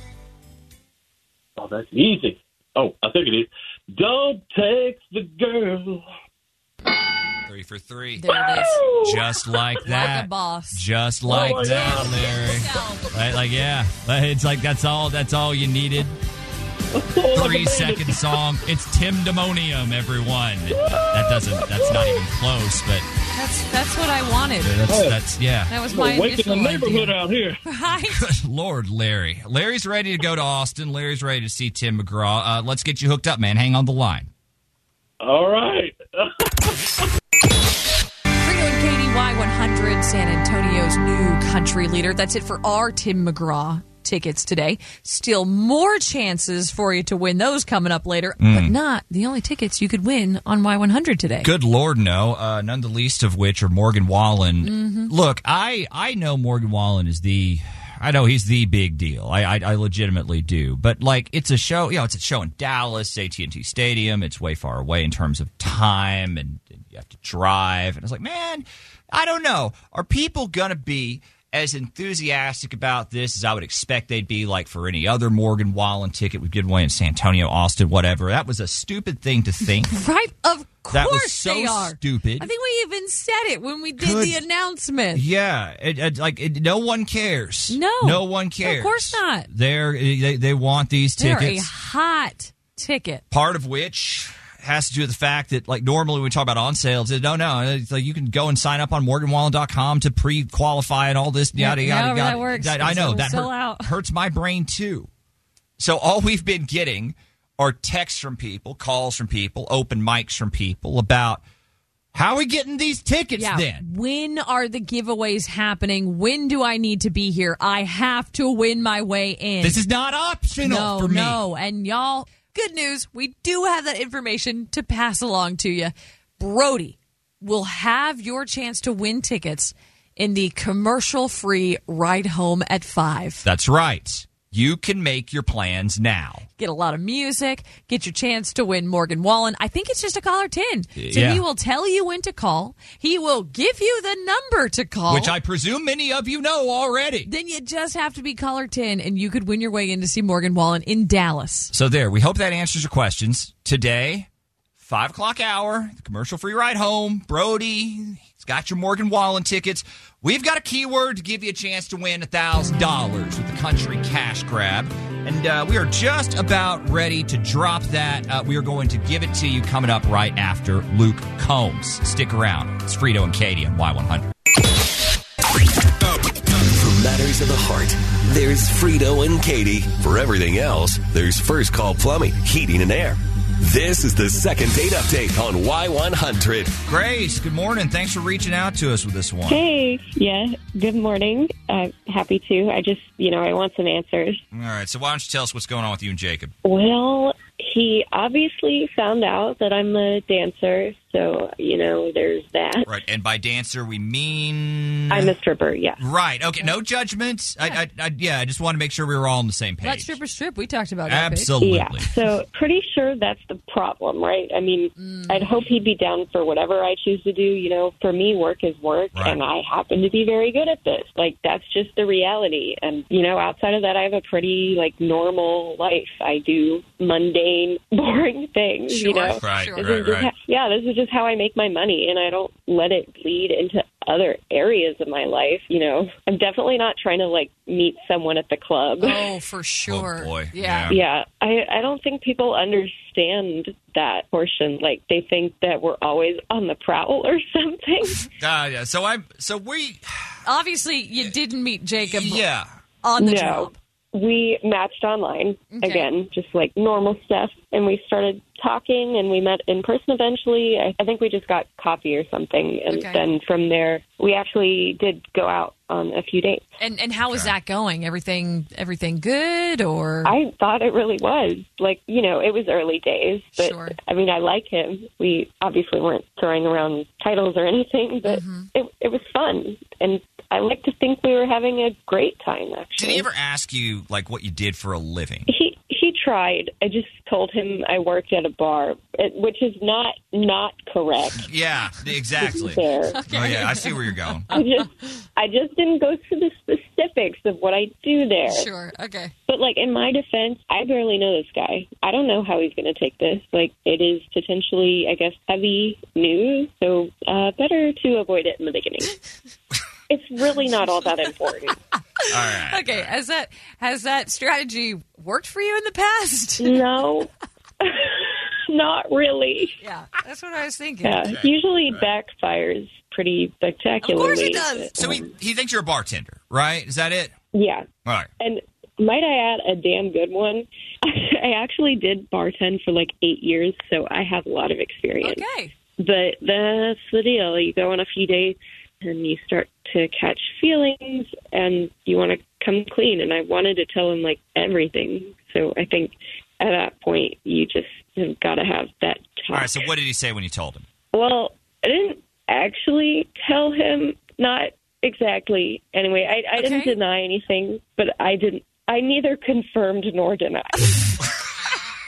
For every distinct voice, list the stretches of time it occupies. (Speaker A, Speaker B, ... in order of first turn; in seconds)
Speaker A: 1.6-6.0, 8.5-9.2, 11.3-12.3, 16.9-18.4, 20.7-22.1, 24.9-25.2, 25.9-27.6, 35.2-36.7
Speaker B: 7.5-16.1, 17.3-23.1, 24.6-25.7, 28.1-34.3, 48.4-48.7, 51.4-80.0, 80.9-82.5, 84.0-84.4, 85.1-91.7, 93.3-105.1, 105.8-111.4, 112.1-113.8, 119.6-121.4, 133.4-136.4, 140.9-141.4, 145.1-147.3, 151.7-154.3, 154.8-174.3, 186.8-189.6, 194.5-196.5, 202.8-205.3, 206.0-210.2, 211.1-212.1, 219.1-219.4, 229.4-230.3, 239.9-241.0, 248.4-250.0, 252.0-252.7, 267.3-267.5, 283.0-285.5, 291.4-294.5, 312.3-313.1, 321.3-322.0, 324.9-327.3, 349.5-350.9
Speaker C: 8.2-8.8, 9.8-10.8, 11.5-13.1, 23.3-24.8, 25.7-28.2, 38.4-51.5, 54.6-55.1, 79.9-85.2, 87.7-89.5, 91.2-93.2, 101.5-103.9, 113.4-119.8, 120.6-133.4, 136.6-145.3, 147.2-151.7, 209.8-211.5, 215.0-215.5, 228.9-229.9, 239.0-240.9, 250.4-252.4, 253.0-253.7, 255.7-256.1, 262.9-263.2, 266.8-270.3, 273.6-273.9, 278.2-278.7, 293.1-294.0, 298.5-299.3, 312.2-316.8, 319.8-321.3, 324.0-324.9, 335.2-335.7, 356.6-356.9
Speaker D: 176.5-186.8
Speaker E: 189.5-194.4, 196.6-202.9, 205.1-206.0, 211.6-239.2, 240.9-248.3, 253.2-266.6, 270.2-283.2, 285.5-291.5, 292.4-293.2, 294.5-298.7, 299.5-309.1, 310.1-311.8, 316.6-317.3, 317.8-319.7, 321.0-325.2, 327.5-327.9, 328.4-335.4, 336.0-349.9, 351.1-361.1